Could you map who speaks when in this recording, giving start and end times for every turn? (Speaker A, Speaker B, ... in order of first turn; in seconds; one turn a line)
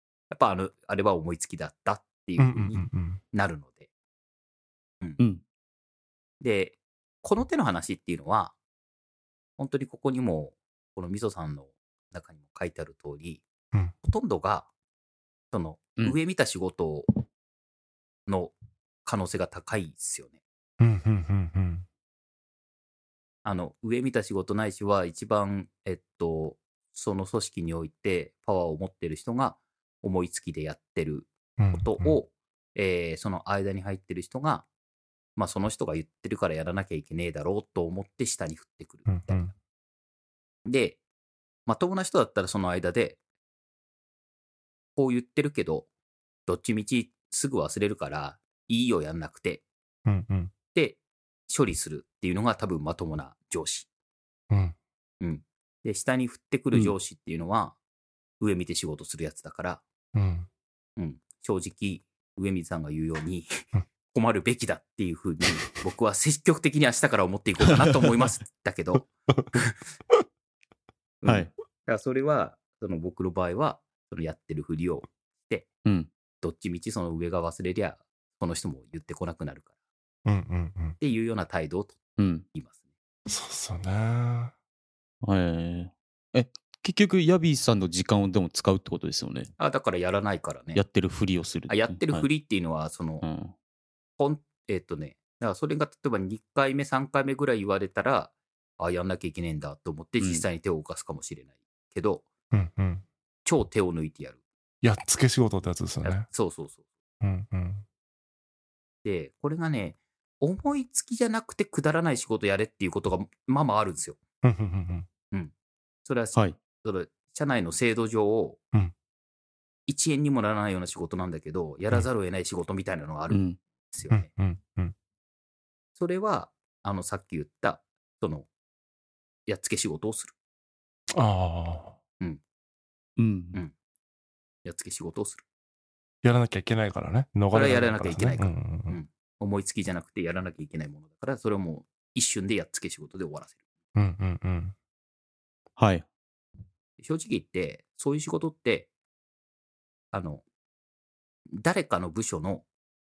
Speaker A: 0.3-3.9
Speaker B: 2.4-3.2
Speaker A: 6.4-8.5
Speaker A: 9.6-13.4
Speaker A: 14.0-14.7
Speaker A: 15.5-17.2
Speaker A: 18.2-18.5
Speaker A: 19.0-20.4
Speaker B: 20.8-21.8
Speaker A: 23.4-34.7
Speaker B: 31.6-32.2
Speaker A: 35.4-39.5
Speaker B: 39.1-39.5
Speaker A: 40.6-41.0
Speaker A: 41.6-43.2
Speaker A: 45.0-45.9
Speaker A: 46.5-49.6
Speaker B: 50.0-50.5
Speaker A: 50.7-53.9
Speaker B: 54.5-54.8
Speaker A: 55.2-57.8
Speaker A: 58.4-59.8
Speaker B: 60.1-60.5
Speaker A: 61.0-69.8
Speaker A: 71.2-75.7
Speaker A: 76.4-79.7
Speaker B: 80.2-81.0
Speaker A: 81.0-82.0
Speaker C: 82.2-82.4
Speaker B: 83.3-84.5
Speaker C: 85.2-89.5
Speaker A: 89.6-90.8
Speaker C: 90.7-92.3
Speaker A: 91.7-93.2
Speaker C: 93.2-93.5
Speaker A: 94.2-102.3
Speaker C: 100.2-100.5
Speaker B: 102.5-103.0
Speaker A: 103.4-104.4
Speaker B: 104.8-106.3
Speaker A: 106.0-106.8
Speaker B: 107.2-107.8
Speaker A: 109.0-114.2
Speaker B: 114.4-115.1
Speaker A: 116.0-118.6
Speaker A: 119.9-124.3
Speaker C: 123.3-123.6
Speaker B: 124.1-124.9
Speaker A: 125.9-128.5
Speaker A: 129.4-130.3
Speaker B: 131.1-132.0
Speaker C: 133.2-133.6
Speaker A: 134.6-135.4
Speaker B: 136.2-139.0
Speaker A: 137.5-143.6
Speaker B: 143.9-144.7
Speaker C: 145.8-146.1
Speaker A: 147.0-148.9
Speaker A: 150.1-150.4
Speaker A: 151.5-152.7